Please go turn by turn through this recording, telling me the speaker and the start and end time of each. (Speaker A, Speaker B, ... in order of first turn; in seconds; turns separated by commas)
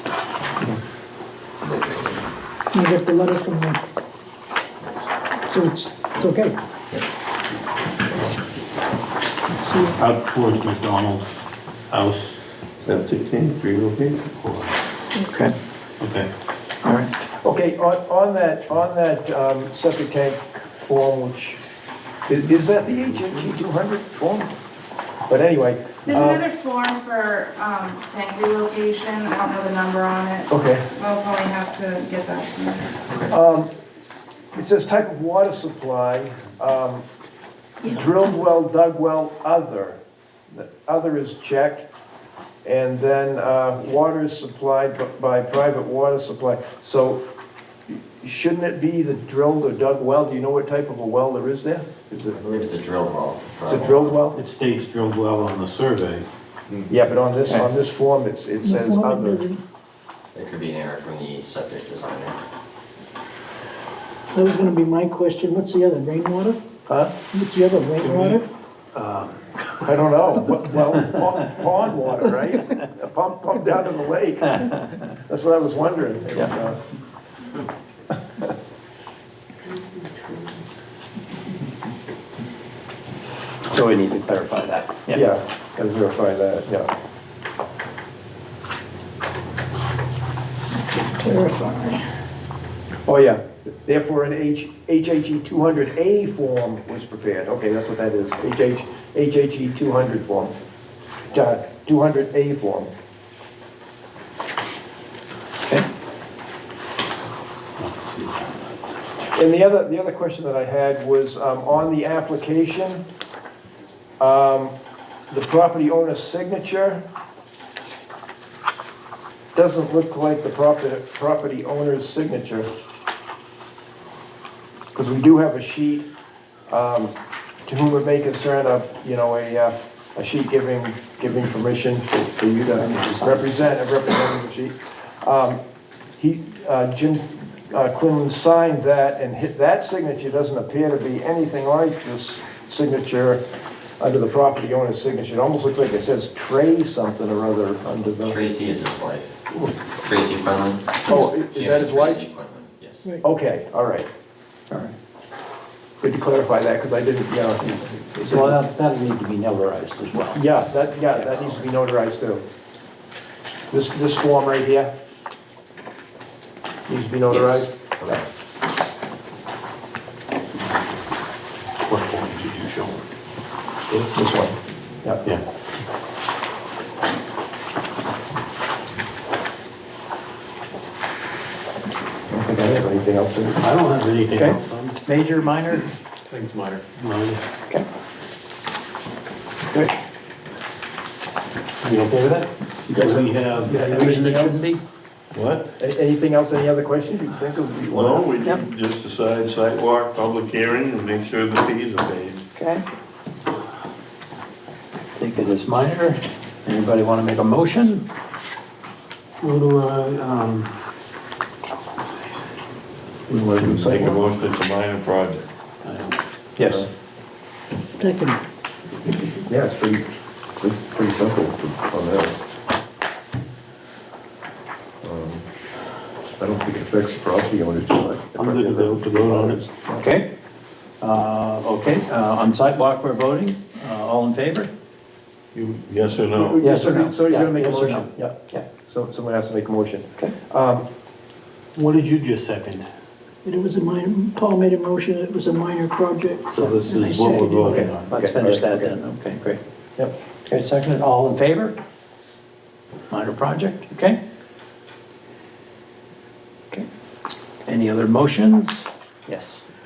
Speaker A: 1.6-2.3, Speaker B: 2.7-3.8, Speaker B: 5.5-6.6, Speaker B: 9.6-9.9, Speaker C: 10.0-12.4, Speaker D: 12.8-14.3, Speaker C: 14.4-14.7, Speaker E: 15.2-15.5, Speaker C: 16.0-16.3, Speaker E: 16.8-17.1, Speaker F: 17.3-21.6, Speaker F: 22.3-24.5, Speaker F: 25.3-26.4, Speaker G: 26.1-30.5, Speaker F: 30.5-30.9, Speaker G: 31.0-32.8, Speaker F: 33.3-33.7, Speaker F: 34.5-37.0, Speaker F: 37.8-40.0, Speaker F: 40.5-41.9, Speaker F: 42.6-47.2, Speaker F: 47.9-52.4, Speaker A: 52.4-54.2, Speaker F: 53.7-54.4, Speaker C: 54.3-56.3, Speaker F: 56.9-59.5, Speaker B: 58.6-59.6, Speaker A: 60.3-62.4, Speaker B: 64.3-66.6, Speaker F: 66.9-67.1, Speaker B: 67.3-68.5, Speaker C: 68.0-68.4, Speaker C: 68.9-69.4, Speaker F: 69.8-76.8, Speaker E: 83.7-85.2, Speaker F: 85.1-86.9, Speaker B: 91.0-92.0, Speaker F: 93.1-100.5, Speaker F: 101.3-102.9, Speaker C: 107.8-108.7, Speaker F: 109.3-113.0, Speaker F: 114.2-114.7, Speaker F: 115.3-117.0, Speaker F: 119.5-122.7, Speaker F: 124.9-126.1, Speaker F: 126.7-127.1, Speaker F: 127.7-135.6, Speaker E: 132.8-133.5, Speaker F: 136.2-143.4, Speaker F: 144.0-148.4, Speaker A: 148.2-149.3, Speaker A: 150.0-153.1, Speaker F: 151.1-152.2, Speaker F: 153.2-154.1, Speaker F: 156.0-158.6, Speaker E: 157.7-160.4, Speaker F: 160.3-162.4, Speaker A: 161.3-161.6, Speaker F: 163.7-164.9, Speaker F: 166.9-168.2, Speaker A: 167.3-168.2, Speaker C: 171.8-173.0, Speaker C: 173.9-174.3, Speaker F: 174.2-175.2, Speaker F: 182.3-183.6, Speaker C: 183.6-185.0, Speaker E: 184.4-185.9, Speaker C: 186.9-187.4, Speaker C: 191.8-194.7, Speaker F: 192.9-193.3, Speaker E: 193.7-194.8, Speaker D: 195.3-195.7, Speaker F: 195.8-198.3, Speaker D: 197.9-202.4, Speaker E: 202.6-202.8, Speaker E: 205.2-208.1, Speaker C: 209.4-210.7, Speaker F: 213.3-214.2, Speaker D: 213.6-215.4, Speaker C: 215.8-216.2, Speaker E: 216.6-216.9, Speaker F: 216.6-216.9, Speaker B: 218.0-218.4, Speaker F: 219.5-222.4, Speaker F: 225.0-225.4, Speaker F: 226.4-230.0, Speaker C: 228.4-229.6, Speaker E: 229.9-230.3, Speaker E: 231.0-234.7, Speaker D: 235.5-236.6, Speaker F: 236.3-240.8, Speaker E: 236.6-238.7, Speaker C: 241.8-242.9, Speaker B: 243.4-247.9, Speaker C: 246.5-248.1, Speaker F: 247.7-248.9, Speaker E: 248.1-249.6, Speaker E: 250.5-251.8, Speaker E: 253.1-254.2, Speaker E: 257.7-259.7